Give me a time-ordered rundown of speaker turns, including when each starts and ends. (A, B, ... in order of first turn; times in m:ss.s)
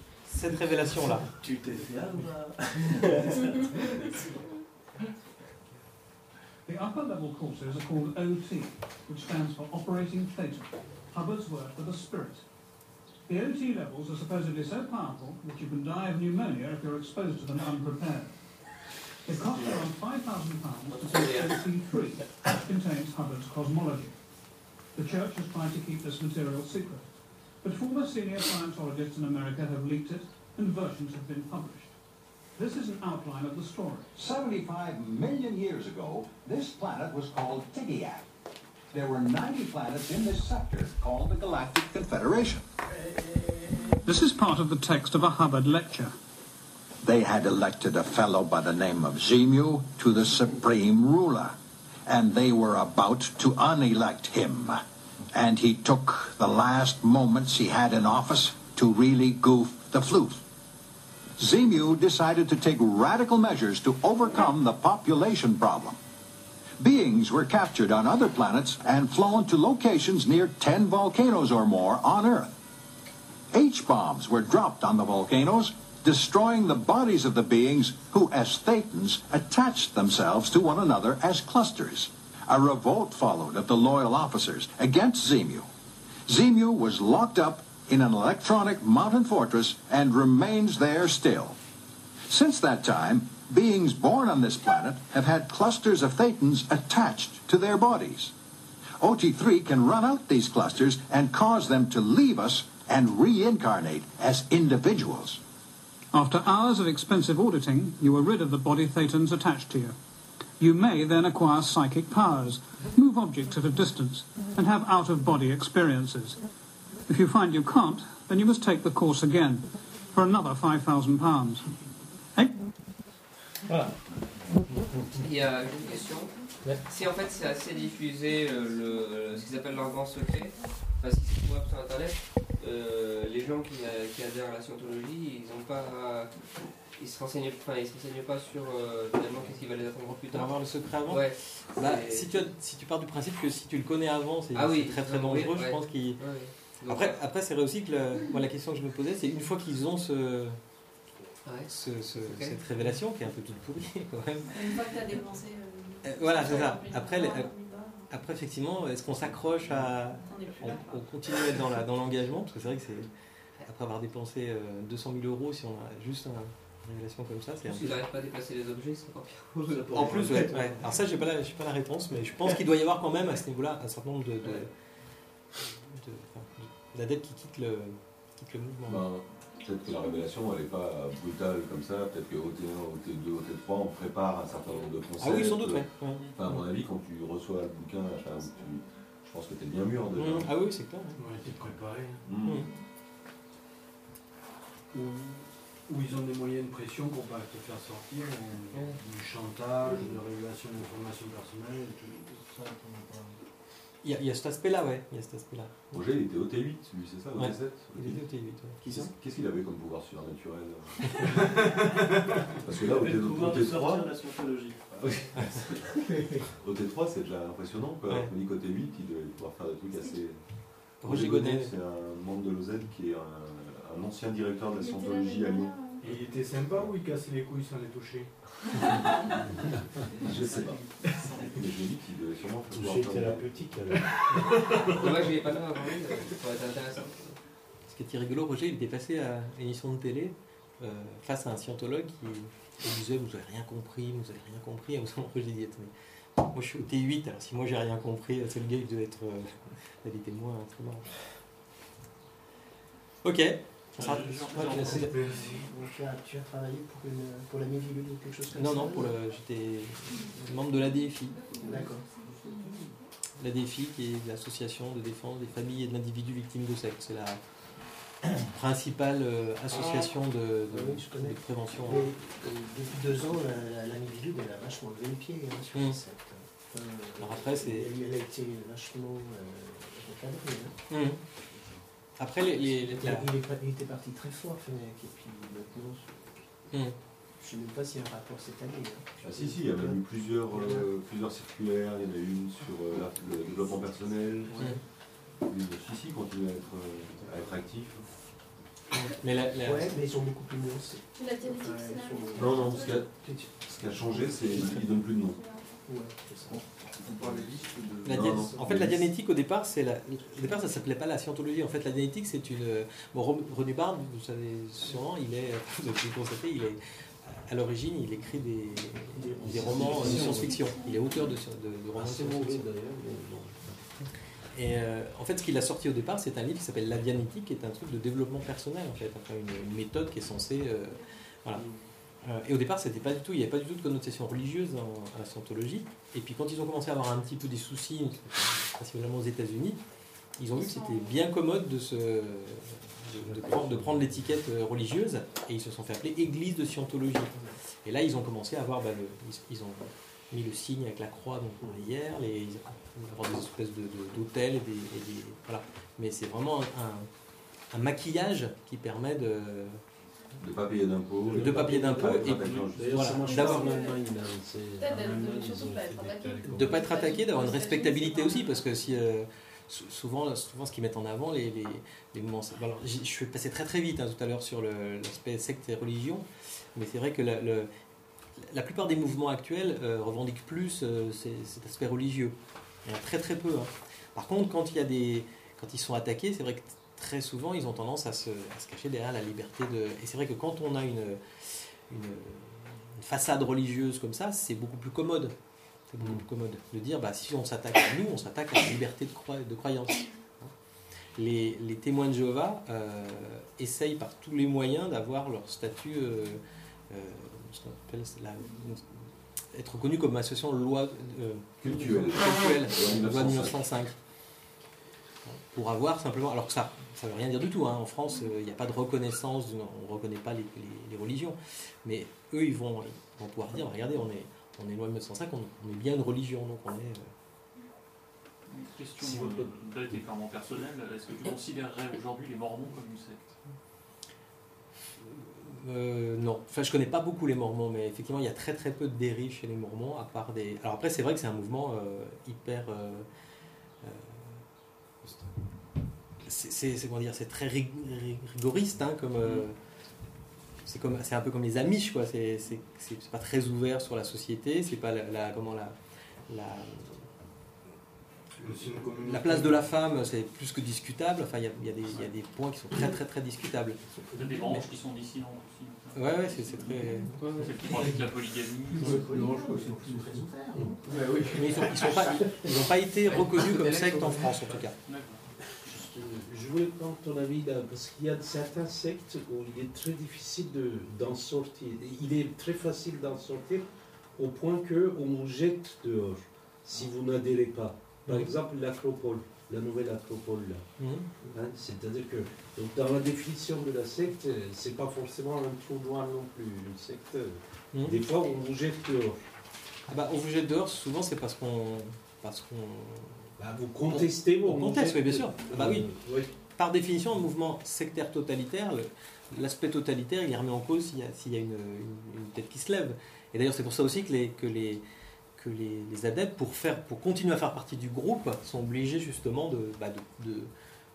0:00.2-0:01.3 A
0:01.4-0:04.3 B
0:06.7-0:12.4 C
0:13.3-0:18.3 C
0:19.3-0:24.1 C
0:20.9-0:21.6 D
0:24.9-0:27.0 C
0:27.6-0:31.9 C
0:32.6-0:34.1 C
0:34.2-0:38.2 E
0:38.9-0:42.6 E
0:44.0-0:46.2 C
0:47.0-0:51.6 E
0:52.1-0:54.8 E
0:55.3-1:00.4 E
1:01.4-1:06.0 E
1:06.8-1:12.5 E
1:13.5-1:25.7 E
1:26.3-1:31.6 E
1:32.3-1:38.3 E
1:39.0-1:45.4 E
1:46.1-1:50.0 C
1:50.6-1:56.4 C
1:57.1-2:01.7 C
2:05.2-2:22.5 D
2:20.3-2:30.6 A
2:24.5-2:27.2 D
2:31.4-2:32.9 D
2:31.6-2:34.7 A
2:34.5-2:38.1 F
2:36.0-2:37.5 A
2:38.1-2:43.1 A
2:40.2-2:41.8 F
2:43.6-2:48.0 A
2:47.7-2:50.6 D
2:49.6-2:51.0 B
2:49.9-2:54.7 A
2:55.6-2:59.0 A
2:58.9-3:10.5 G
3:05.2-3:06.3 A
3:10.2-3:11.2 A
3:11.2-3:12.3 H
3:12.2-3:12.7 G
3:12.4-3:12.7 A
3:14.9-3:23.4 H
3:18.7-3:19.0 D
3:24.0-3:25.8 A
3:25.9-3:28.3 G
3:27.4-3:29.1 A
3:28.8-3:31.4 G
3:32.6-3:34.2 G
3:32.7-3:34.8 B
3:34.9-3:35.9 G
3:36.5-3:46.9 G
3:39.9-3:40.2 F
3:41.0-3:41.7 A
3:44.8-3:46.0 F
3:46.0-3:48.4 H
3:50.2-3:53.7 G
3:52.7-3:54.0 I
3:54.1-3:54.5 H
3:54.9-3:57.4 D
3:57.9-4:05.9 A
4:06.5-4:11.1 A
4:13.2-4:15.1 A
4:14.0-4:15.1 J
4:15.0-4:15.6 H
4:15.0-4:19.2 K
4:18.6-4:21.4 A
4:21.6-4:22.1 K
4:21.6-4:22.8 F
4:23.4-4:27.4 A
4:28.5-4:32.1 A
4:30.7-4:40.8 K
4:35.7-4:36.0 A
4:37.2-4:37.9 A
4:40.9-4:41.2 A
4:41.5-4:41.8 K
4:42.2-4:43.3 A
4:42.4-4:46.8 K
4:46.7-4:47.0 A
4:47.4-4:50.9 K
4:49.2-4:54.6 G
4:54.5-4:54.8 K
4:55.4-4:58.1 G
4:59.0-5:00.0 A
4:59.1-5:05.0 K
5:01.2-5:03.1 F
5:02.4-5:05.4 G
5:05.2-5:05.7 F
5:05.9-5:07.7 K
5:07.0-5:08.0 I
5:08.0-5:22.7 A
5:08.0-5:09.1 G
5:19.2-5:20.3 K
5:19.4-5:20.4 I
5:20.3-5:21.4 F
5:22.0-5:23.9 I
5:24.5-5:31.6 A
5:31.6-5:31.8 I
5:32.2-5:39.8 A
5:40.4-5:57.1 A
5:40.6-5:41.1 F
5:57.7-5:59.8 A
6:00.4-6:03.6 G
6:01.3-6:06.7 I
6:01.4-6:03.7 A
6:03.4-6:04.0 F
6:04.8-6:08.8 F
6:06.4-6:17.7 A
6:18.4-6:22.4 A
6:22.9-6:35.4 A
6:35.9-6:40.5 A
6:41.2-6:54.0 A
6:51.6-6:53.6 G
6:55.3-7:07.1 A
7:08.5-7:13.4 J
7:09.2-7:09.4 I
7:15.2-7:23.1 A
7:23.8-7:24.4 A
7:26.2-7:29.6 A
7:30.7-7:35.8 A
7:36.3-7:37.1 A
7:38.4-7:39.7 H
7:38.4-7:43.8 A
7:44.1-7:49.0 J
7:44.4-7:44.7 A
7:45.9-7:47.2 A
7:47.1-7:47.4 K
7:48.8-7:51.7 H
7:48.8-7:51.4 K
7:51.3-7:54.8 A
7:52.0-7:52.4 K
7:54.8-7:55.2 J
7:55.6-8:10.7 I
8:10.8-8:11.0 A
8:11.3-8:19.2 I
8:17.7-8:18.0 A
8:19.9-8:23.3 A
8:23.4-8:26.3 I
8:23.8-8:25.9 A
8:26.5-8:34.8 A
8:35.4-8:40.5 A